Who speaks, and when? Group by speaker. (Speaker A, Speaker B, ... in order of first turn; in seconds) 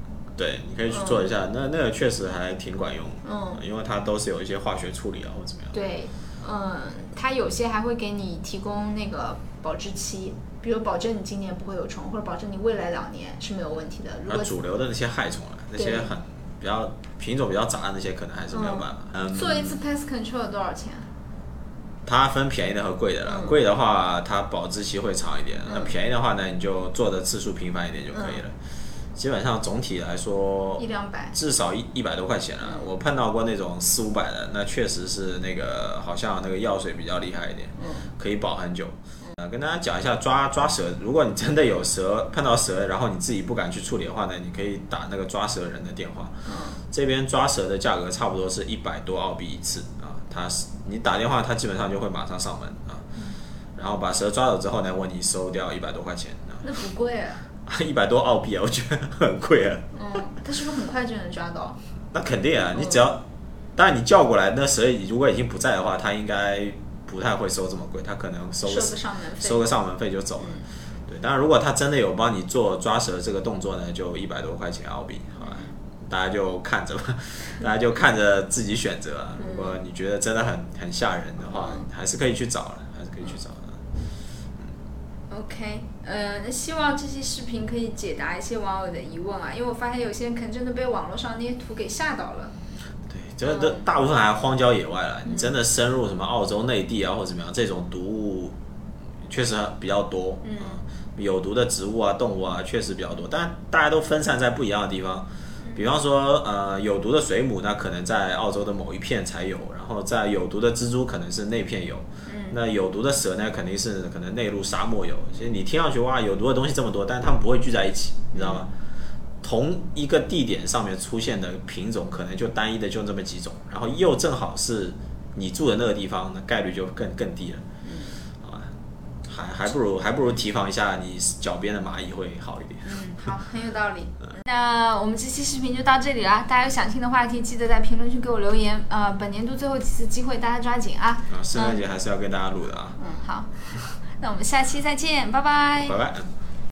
Speaker A: 0.4-5.8, 14.3-19.8, 22.0-28.5, 29.1-30.8, 31.3-53.0, 53.8-56.6, 57.6-59.9, 62.1-63.2, 63.8-83.8, 93.1-98.5, 99.3-118.7, 119.4-127.6, 128.4-128.7, 129.3-133.0, 141.3-143.0, 145.8-146.3
Speaker B: 0.9-1.3, 3.2-3.6, 5.7-14.5, 15.8-16.1, 18.5-21.1, 23.2-23.6, 25.6-25.9, 28.1-28.4, 30.8-31.4, 32.6-32.9, 37.8-38.1, 46.5-46.8, 56.6-57.4, 59.9-61.8, 62.7-63.0, 68.6-69.7, 70.4-70.6, 75.4-75.7, 79.4-79.8, 81.5-81.8, 85.3-92.5, 93.4-93.8, 100.4-100.8, 112.2-112.6, 118.3-118.6, 127.8-128.2, 132.8-141.8, 143.0-146.0